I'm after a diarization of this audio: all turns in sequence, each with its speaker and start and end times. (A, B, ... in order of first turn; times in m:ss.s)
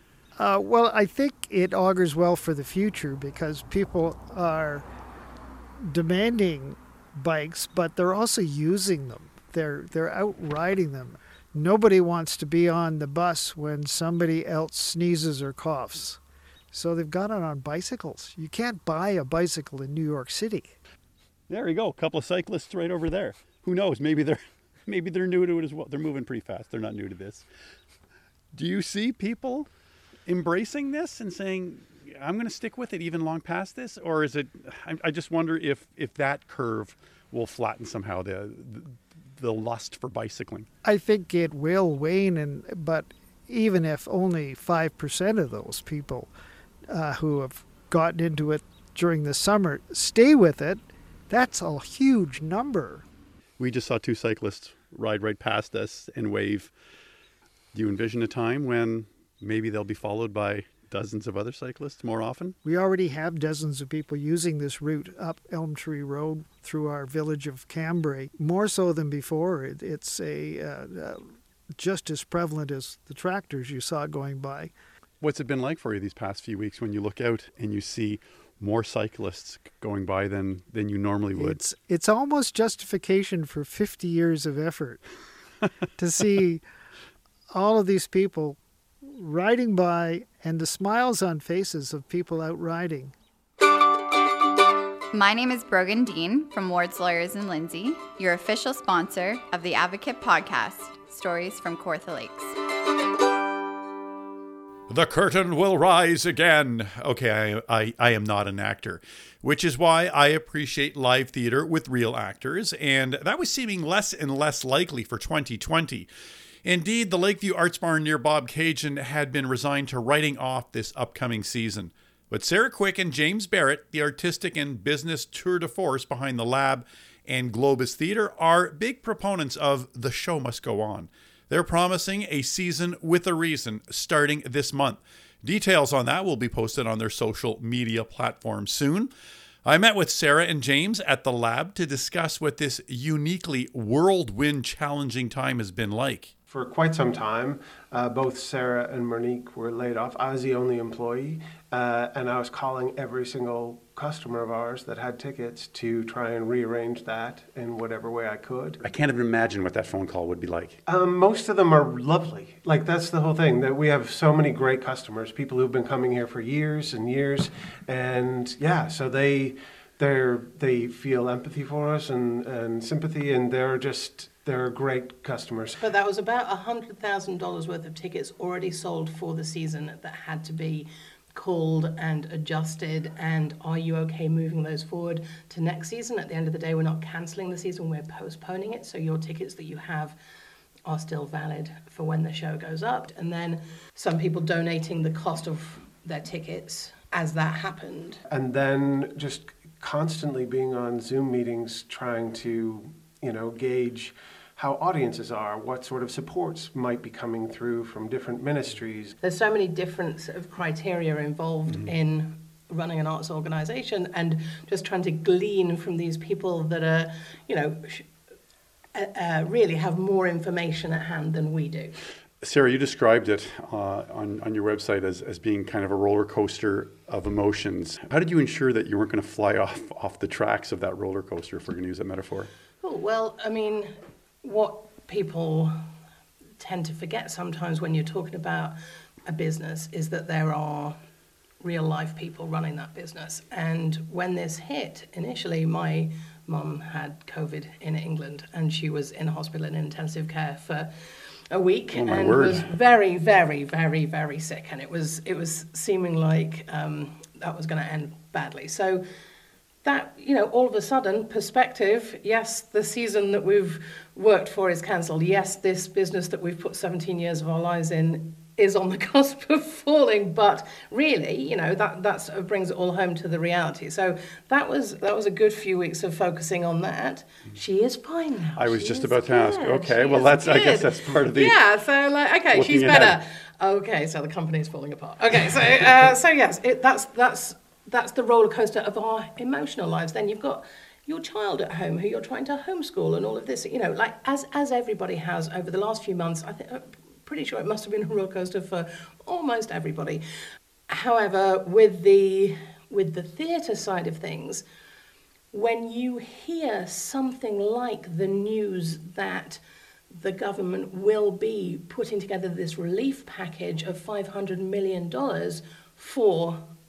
0:00.4-0:04.8 A
0:05.8-0:16.2 A
0:16.7-0:20.8 A
0:21.5-0:27.4 B
0:28.5-0:29.7 B
0:30.2-0:40.7 B
0:40.8-0:46.3 A
0:46.9-0:53.0 A
0:53.6-0:56.7 B
0:57.7-1:02.6 B
1:02.6-1:14.7 A
1:15.2-1:21.6 B
1:21.3-1:25.0 A
1:26.0-1:26.6 A
1:27.5-1:33.1 A
1:35.1-1:42.5 C
1:44.9-1:56.1 B
1:56.6-2:19.1 B
2:19.6-2:26.3 B
2:26.5-2:38.8 D
2:38.8-2:40.8 B
2:40.8-2:55.8 D
2:55.8-3:10.2 E
3:10.8-3:18.2 E
3:18.3-3:29.1 D
3:29.2-3:38.0 E
3:38.9-3:42.0 E
3:42.4-3:52.5 B
3:52.8-3:55.8 E
3:56.6-3:58.8 E
3:59.3-4:01.0 E
4:01.6-4:10.9 E
4:11.5-4:19.0 E
4:11.9-4:12.7 B
4:19.8-5:00.2 E
4:38.6-4:41.6 B
4:42.5-4:43.2 B
5:00.9-5:04.6 E
5:05.5-5:09.6 E
5:10.1-5:16.6 E